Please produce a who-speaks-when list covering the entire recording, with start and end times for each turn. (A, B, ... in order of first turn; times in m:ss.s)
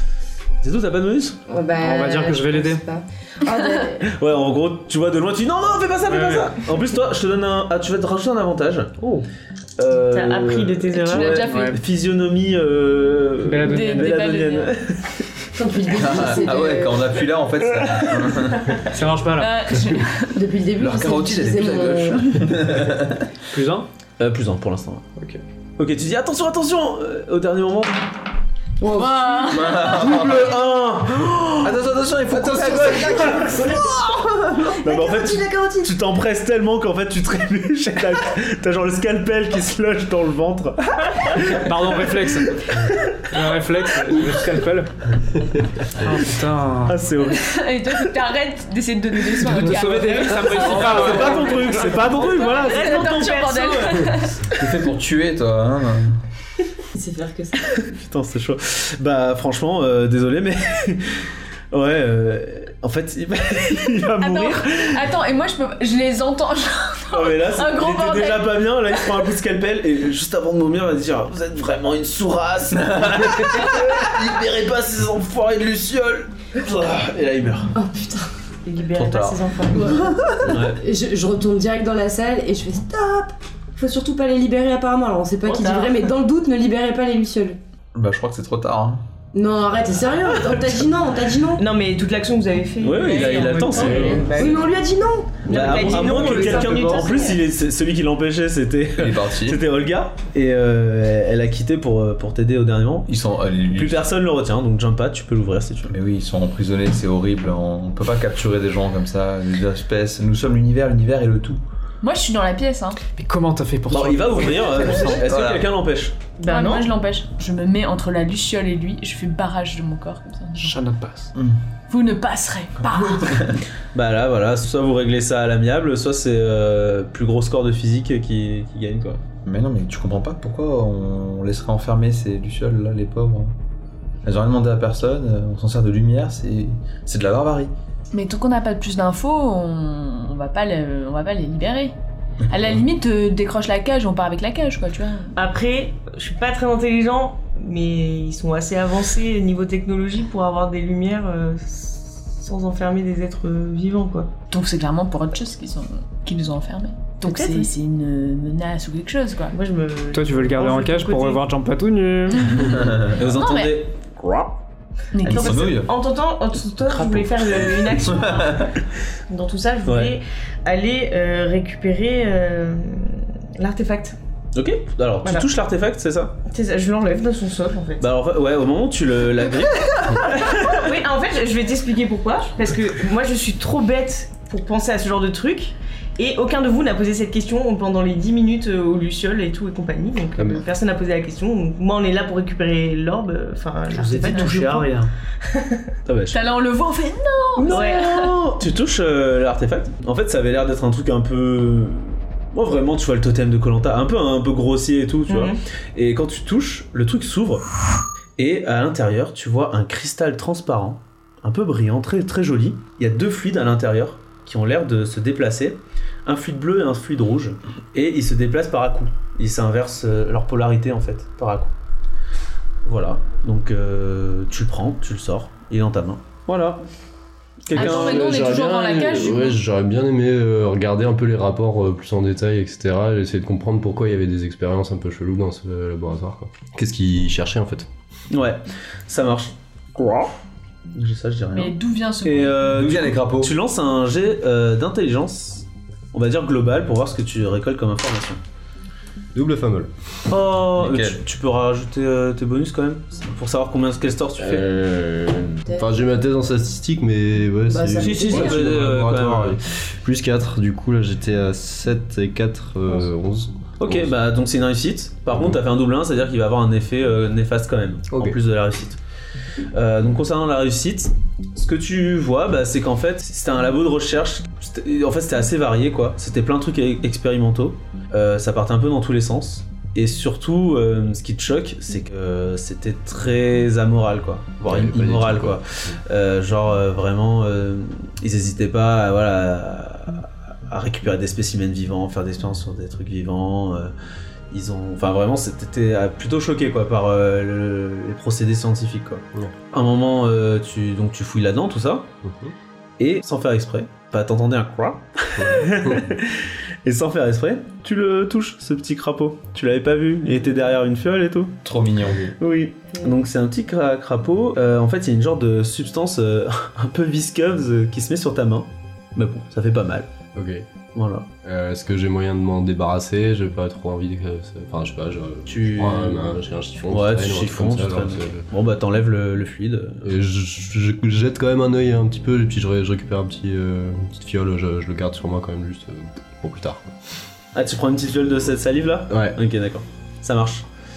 0:00.6-0:01.4 A
0:01.5-0:04.1 B
0:01.8-0:02.8 C
0:04.0-0:08.9 A
0:06.1-0:06.5 C
0:09.8-0:15.2 A
0:09.9-0:11.4 D
0:11.0-0:11.8 E
0:11.4-0:11.8 C
0:13.4-0:14.2 C
0:13.6-0:14.7 E
0:15.5-0:17.2 B
0:15.9-0:18.9 F
0:18.9-0:19.7 C
0:19.4-0:20.4 E
0:20.3-0:22.7 B
0:20.8-0:23.3 F
0:23.5-0:23.9 C
0:24.2-0:25.0 A
0:25.8-0:27.9 A
0:28.8-0:29.8 B
0:28.9-0:30.1 E
0:29.5-0:30.6 F
0:30.0-0:31.8 A
0:31.6-0:34.7 F
0:32.3-0:33.8 A
0:32.4-0:35.9 B
0:34.8-0:41.6 A
0:41.4-0:44.9 C
0:42.9-0:43.2 A
0:45.9-0:47.0 C
0:46.8-0:47.4 A
0:47.3-0:54.5 E
0:49.4-0:52.2 C
0:50.5-0:53.1 A
0:51.2-0:54.1 D
0:54.4-0:56.2 F
0:56.9-0:57.8 B
0:57.7-1:05.0 A
1:04.2-1:09.1 E
1:07.1-1:17.7 A
1:12.8-1:14.3 F
1:17.7-1:18.3 B
1:18.6-1:20.0 D
1:18.9-1:20.6 F
1:19.7-1:27.6 B
1:20.4-1:20.8 A
1:25.4-1:26.1 D
1:27.9-1:29.0 F
1:29.3-1:31.6 B
1:31.6-1:34.7 D
1:32.8-1:34.4 A
1:33.5-1:34.3 C
1:34.3-1:37.2 B
1:35.4-1:37.4 D
1:35.5-1:43.1 A
1:39.0-1:39.6 F
1:43.1-1:44.1 F
1:43.7-1:45.9 A
1:45.9-1:51.6 F
1:52.0-1:53.0 E
1:53.1-1:55.2 C
1:53.9-1:56.2 A
1:55.2-1:55.7 F
1:56.4-1:56.9 D
1:56.4-2:00.8 E
2:00.6-2:01.3 C
2:01.9-2:03.5 E
2:02.8-2:03.6 F
2:03.9-2:09.2 A
2:09.4-2:13.5 F
2:14.2-2:17.7 F
2:18.1-2:21.9 E
2:22.5-2:25.3 E
2:22.5-2:22.8 F
2:25.3-2:34.3 D
2:34.5-2:39.5 E
2:37.2-2:37.7 D
2:39.5-2:41.5 D
2:40.1-2:42.5 C
2:42.3-2:43.8 E
2:42.6-2:43.1 F
2:43.1-2:44.6 A
2:45.1-2:45.8 E
2:45.2-2:45.9 F
2:45.2-2:48.7 D
2:46.9-2:47.4 A
2:48.0-2:48.7 F
2:49.3-2:54.2 D
2:49.8-2:50.2 A
2:54.5-2:56.4 A
2:56.4-2:58.1 D
2:58.0-3:00.5 A
3:00.4-3:15.7 D
3:10.4-3:10.6 G
3:14.4-3:14.8 A
3:16.0-3:16.4 A
3:16.3-3:18.5 E
3:17.6-3:18.4 D
3:17.6-3:27.6 A
3:25.3-3:25.6 D
3:28.4-3:41.7 A
3:42.8-3:46.8 A
3:47.6-3:48.3 A
3:47.7-3:57.9 G
3:47.7-3:49.6 E
3:58.3-4:00.3 A
4:00.9-4:08.4 A
4:01.5-4:02.6 E
4:02.7-4:03.5 F
4:09.3-4:09.9 G
4:10.3-4:14.6 A
4:10.8-4:11.2 F
4:14.4-4:24.1 G
4:17.7-4:18.7 B
4:18.0-4:19.6 A
4:23.8-4:29.0 A
4:28.1-4:28.4 G
4:29.7-4:53.9 A
4:44.6-4:46.0 G
4:54.5-5:02.1 A
5:02.2-5:02.5 G
5:03.0-5:11.6 A
5:05.4-5:06.0 G
5:11.6-5:12.2 F
5:12.4-5:20.1 A
5:20.3-5:20.6 G
5:20.9-5:21.2 A
5:21.4-5:28.4 G
5:25.4-5:30.1 A
5:30.0-5:36.9 G
5:37.5-5:40.6 A
5:39.1-5:39.4 G